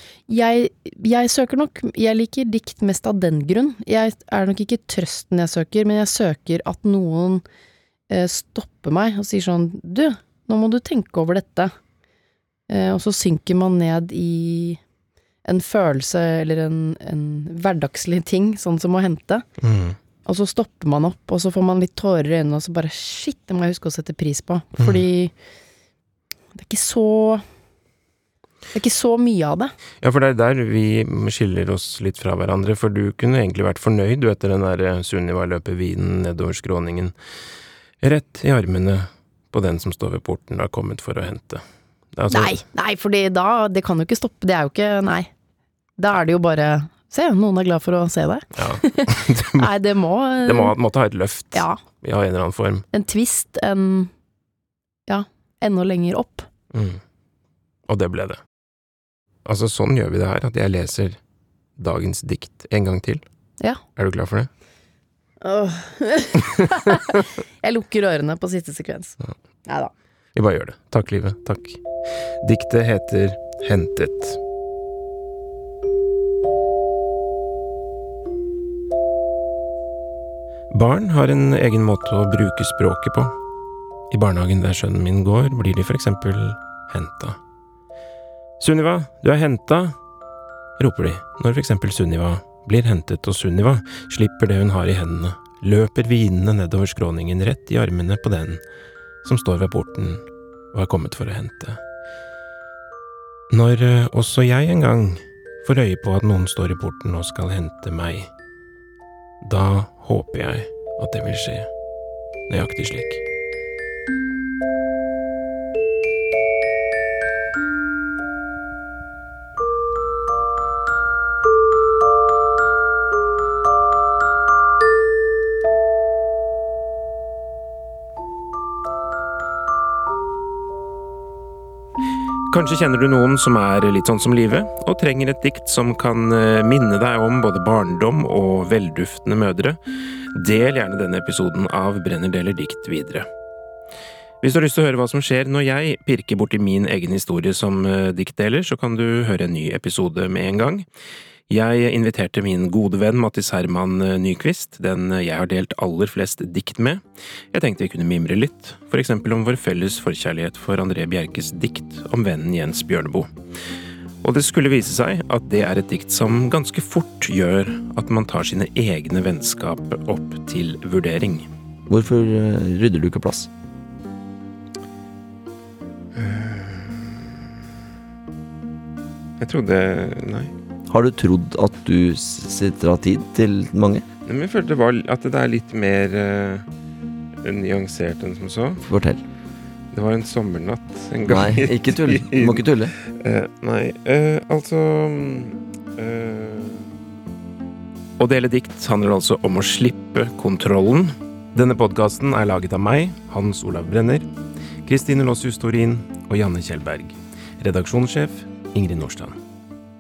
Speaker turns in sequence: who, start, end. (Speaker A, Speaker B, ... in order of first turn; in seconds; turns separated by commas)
Speaker A: 0.3-7.4, Speaker A: 8.1-11.7, Speaker A: 12.7-14.8, Speaker A: 15.4-19.5, Speaker B: 19.6-20.0, Speaker A: 20.2-25.3, Speaker A: 26.6-27.4, Speaker A: 28.7-29.7, Speaker B: 30.0-37.1, Speaker B: 38.0-41.6, Speaker B: 42.1-42.6, Speaker A: 42.3-45.3, Speaker A: 46.0-50.8, Speaker B: 48.6-49.7, Speaker B: 50.4-52.9, Speaker A: 51.5-51.8, Speaker A: 52.9-54.1, Speaker A: 55.1-56.5, Speaker B: 56.7-57.0, Speaker B: 57.9-58.4, Speaker B: 59.5-61.2, Speaker B: 61.8-63.2, Speaker B: 64.0-64.5, Speaker A: 65.4-69.9, Speaker B: 70.3-71.8, Speaker B: 72.4-74.4, Speaker B: 80.7-83.3, Speaker B: 84.1-87.4, Speaker B: 88.6-90.0, Speaker B: 90.8-98.6, Speaker B: 99.2-101.8, Speaker B: 103.5-108.3, Speaker B: 109.4-111.7, Speaker B: 112.5-113.2, Speaker B: 132.5-139.8, Speaker B: 140.3-143.3, Speaker B: 144.4-150.9, Speaker B: 151.5-157.0, Speaker B: 157.5-163.3, Speaker B: 164.2-171.5, Speaker C: 171.9-173.5, Speaker B: 176.2-177.2, Speaker B: 179.4-180.5, Speaker C: 180.9-184.0, Speaker B: 184.3-186.7, Speaker B: 187.4-188.8, Speaker C: 188.9-189.2, Speaker B: 189.9-196.9, Speaker C: 191.3-192.9, Speaker B: 198.2-204.3, Speaker B: 204.8-209.4